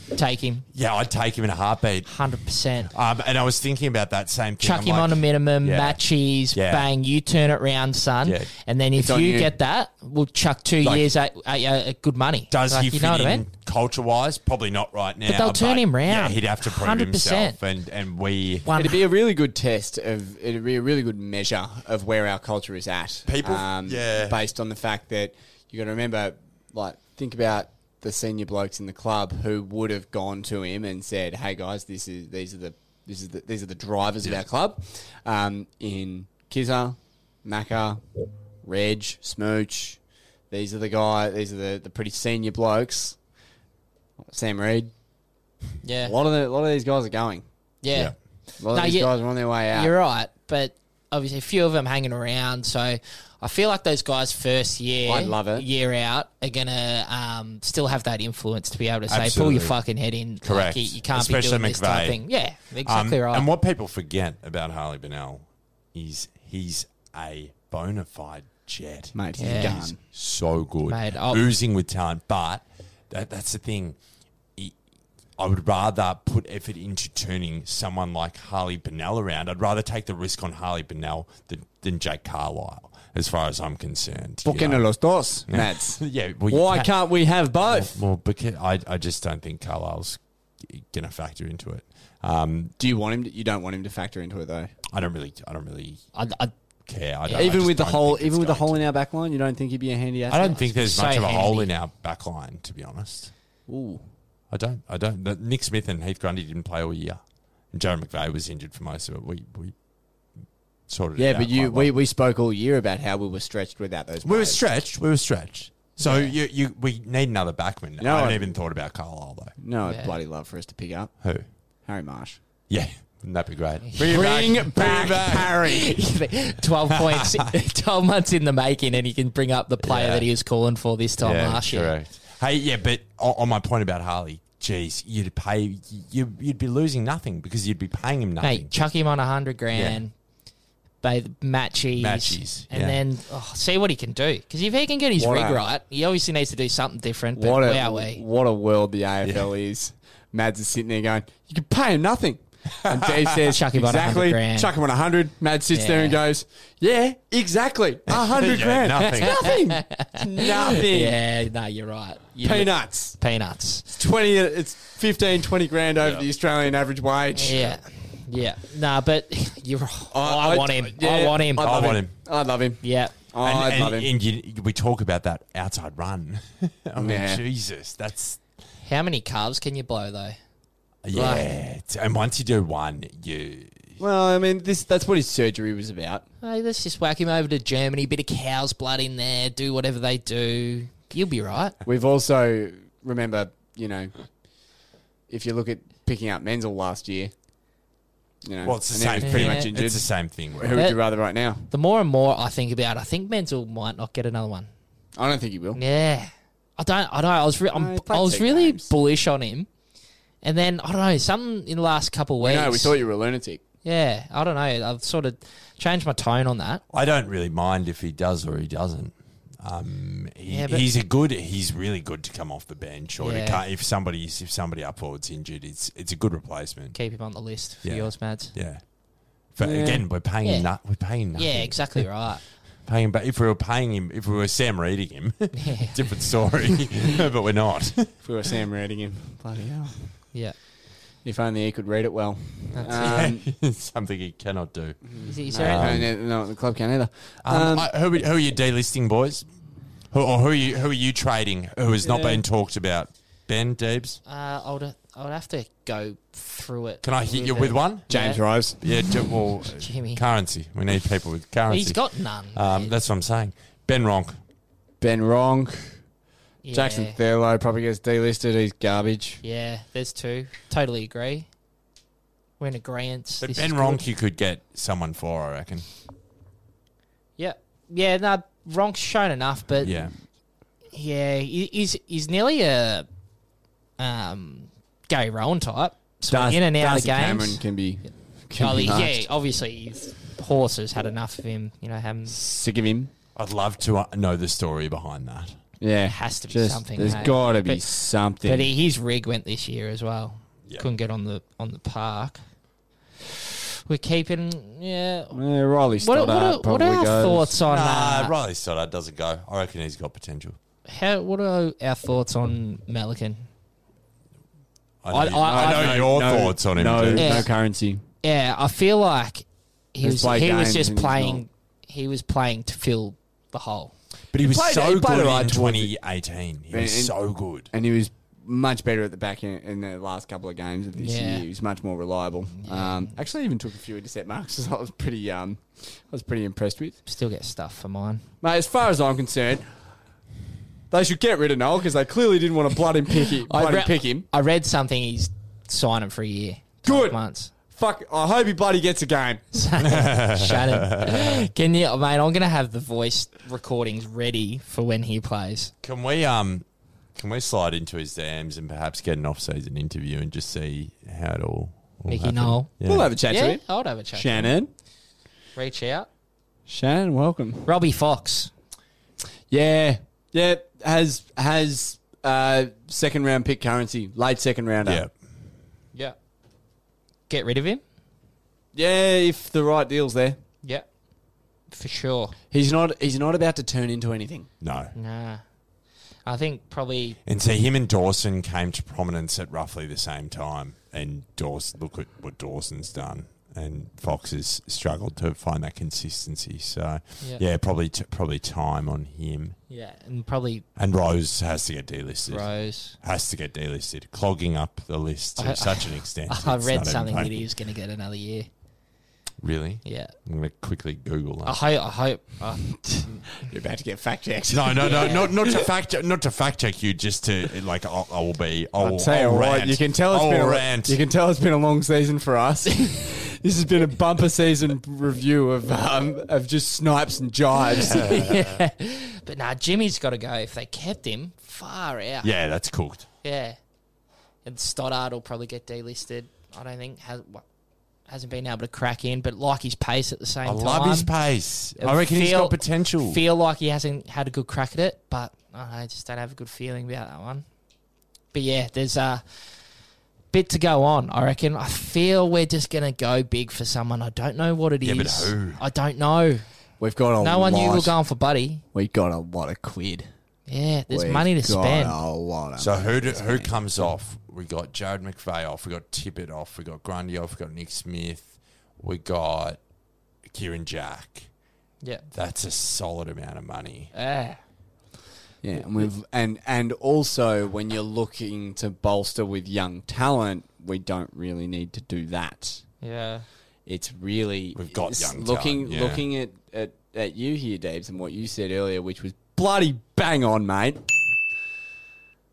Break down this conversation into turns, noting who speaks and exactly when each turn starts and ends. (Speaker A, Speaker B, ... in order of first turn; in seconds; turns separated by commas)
Speaker A: 0.1-0.6, Speaker B: 0.7-2.1, Speaker A: 2.1-2.9, Speaker B: 2.8-6.0, Speaker A: 4.6-13.4, Speaker B: 6.5-6.9, Speaker B: 8.2-8.5, Speaker C: 8.9-9.5, Speaker B: 10.8-11.1, Speaker B: 12.5-18.7, Speaker A: 15.2-17.6, Speaker A: 18.6-19.0, Speaker C: 18.8-38.0, Speaker B: 23.2-24.4, Speaker C: 38.6-40.0, Speaker C: 40.5-43.2, Speaker C: 44.2-44.9, Speaker A: 45.8-46.1, Speaker C: 46.0-47.4, Speaker A: 47.8-49.1, Speaker C: 48.6-49.9, Speaker A: 49.7-63.5, Speaker C: 55.0-55.6, Speaker B: 59.1-59.8, Speaker B: 60.4-62.2, Speaker B: 62.8-74.0, Speaker C: 69.1-70.0, Speaker A: 69.4-69.8, Speaker A: 70.9-71.5, Speaker B: 75.4-84.8, Speaker C: 84.4-88.0, Speaker B: 85.5-86.9, Speaker B: 87.6-92.7, Speaker C: 92.8-94.7, Speaker B: 94.9-96.0, Speaker A: 96.1-96.5, Speaker B: 96.8-98.8, Speaker A: 97.2-97.6, Speaker C: 97.3-100.5, Speaker B: 100.3-103.3, Speaker A: 100.4-101.7, Speaker C: 103.7-104.0, Speaker B: 104.5-109.7, Speaker B: 110.9-111.9, Speaker C: 111.2-114.6, Speaker B: 114.2-119.5, Speaker A: 116.0-116.3, Speaker C: 118.0-118.5, Speaker C: 119.6-122.4, Speaker A: 119.8-120.1, Speaker B: 122.7-125.6, Speaker C: 124.0-126.0, Speaker A: 125.6-131.9, Speaker B: 126.9-127.4, Speaker B: 129.8-130.3, Speaker B: 131.2-138.7, Speaker A: 138.4-140.1, Speaker B: 139.7-140.0, Speaker A: 141.0-148.2, Speaker B: 142.0-143.0, Speaker C: 145.2-145.6, Speaker C: 147.3-161.2, Speaker B: 149.2-149.5, Speaker A: 153.5-154.7, Speaker A: 155.7-156.2, Speaker B: 158.1-159.5, Speaker A: 159.9-160.2, Speaker A: 160.7-163.8, Speaker C: 162.4-163.2, Speaker C: 163.9-167.8, Speaker B: 166.0-166.3, Speaker A: 167.3-172.0, Speaker C: 170.1-174.1, Speaker B: 171.6-172.1, Speaker A: 172.8-173.1, Speaker B: 173.4-178.4, Speaker C: 177.0-177.4, Speaker A: 178.8-180.3, Speaker B: 181.0-184.0, Speaker A: 181.1-181.5, Speaker C: 184.0-186.2, Speaker A: 186.4-191.8, Speaker C: 191.8-194.1, Speaker C: 195.3-197.3, Speaker C: 198.4-201.7, Speaker B: 198.6-200.8, Speaker A: 199.2-199.7, Speaker A: 201.7-204.7, Speaker C: 205.1-205.8, Speaker A: 205.7-209.7, Speaker C: 207.7-208.9, Speaker A: 210.4-212.9, Speaker C: 212.4-213.6, Speaker A: 213.8-216.8, Speaker B: 216.9-227.0, Speaker A: 220.5-220.8, Speaker A: 223.2-223.6, Speaker A: 226.9-228.5, Speaker B: 227.8-228.8, Speaker B: 229.4-232.3, Speaker A: 229.6-230.7, Speaker A: 231.3-232.4, Speaker B: 232.8-238.1, Speaker A: 235.5-235.9, Speaker C: 238.2-240.2, Speaker C: 241.2-243.4, Speaker A: 242.7-243.3, Speaker B: 242.9-245.0, Speaker C: 245.1-247.9, Speaker A: 245.2-245.9, Speaker B: 245.6-246.1, Speaker B: 247.4-249.4, Speaker B: 250.1-254.2, Speaker A: 252.1-252.4, Speaker A: 254.2-258.4, Speaker B: 257.0-258.1, Speaker C: 258.1-258.8, Speaker B: 258.8-264.4, Speaker A: 259.8-260.2, Speaker A: 261.7-262.9, Speaker C: 265.0-266.0, Speaker A: 266.6-267.2, Speaker C: 266.7-269.4, Speaker A: 269.4-271.5, Speaker A: 272.6-274.0, Speaker B: 273.4-275.9, Speaker A: 277.4-280.1, Speaker B: 279.8-280.1, Speaker A: 280.9-283.1, Speaker A: 284.0-287.6, Speaker C: 286.3-289.1, Speaker A: 288.6-292.3, Speaker C: 292.3-293.1, Speaker B: 293.3-295.6, Speaker C: 295.8-298.7, Speaker A: 296.1-297.8, Speaker A: 298.4-302.4, Speaker A: 303.9-305.4, Speaker C: 305.3-307.6, Speaker A: 306.0-308.3, Speaker B: 307.7-310.6, Speaker A: 310.9-313.4, Speaker B: 315.0-317.4, Speaker A: 315.1-316.1, Speaker C: 315.4-318.0, Speaker A: 317.1-317.5, Speaker A: 318.2-323.9, Speaker C: 320.0-321.4, Speaker B: 324.3-327.7, Speaker C: 324.4-325.9, Speaker C: 326.7-337.0, Speaker A: 331.0-331.4, Speaker A: 332.6-333.1, Speaker A: 337.1-338.2, Speaker C: 338.4-339.6, Speaker C: 340.9-344.3, Speaker A: 343.5-347.5, Speaker C: 346.8-349.5, Speaker A: 349.5-355.7, Speaker B: 350.0-351.3, Speaker B: 355.8-356.6, Speaker B: 357.1-363.1, Speaker A: 362.1-362.7, Speaker C: 362.8-364.7, Speaker A: 363.2-364.6, Speaker A: 365.6-366.1, Speaker C: 366.7-367.7, Speaker A: 367.6-368.5, Speaker C: 369.5-375.0, Speaker B: 374.8-375.1, Speaker A: 377.3-377.8, Speaker C: 378.7-380.4, Speaker A: 381.7-382.3, Speaker C: 382.5-384.5, Speaker B: 384.6-384.9, Speaker A: 384.9-385.4, Speaker A: 386.2-387.2, Speaker B: 387.2-399.6, Speaker A: 399.7-400.6, Speaker B: 400.8-407.4, Speaker A: 402.3-402.9, Speaker A: 405.4-408.5, Speaker B: 409.4-411.6, Speaker A: 409.8-410.1, Speaker A: 411.4-413.3, Speaker C: 413.5-415.6, Speaker B: 414.5-421.0, Speaker A: 414.8-415.3, Speaker C: 418.8-428.1, Speaker A: 427.6-432.3, Speaker B: 427.8-428.6, Speaker B: 432.2-433.1, Speaker A: 433.2-433.6, Speaker A: 434.4-437.4, Speaker A: 438.1-441.1, Speaker B: 440.4-443.2, Speaker A: 441.8-447.4, Speaker A: 448.3-449.2, Speaker A: 450.3-456.4, Speaker B: 454.8-455.6, Speaker C: 456.8-457.9, Speaker A: 457.2-458.6, Speaker C: 458.7-460.1, Speaker A: 460.5-461.9, Speaker C: 460.9-463.0, Speaker B: 462.6-469.6, Speaker B: 470.3-471.3, Speaker B: 472.1-473.9, Speaker A: 473.9-474.4, Speaker C: 475.4-482.6, Speaker A: 482.8-483.2, Speaker C: 483.6-490.9, Speaker B: 484.5-486.1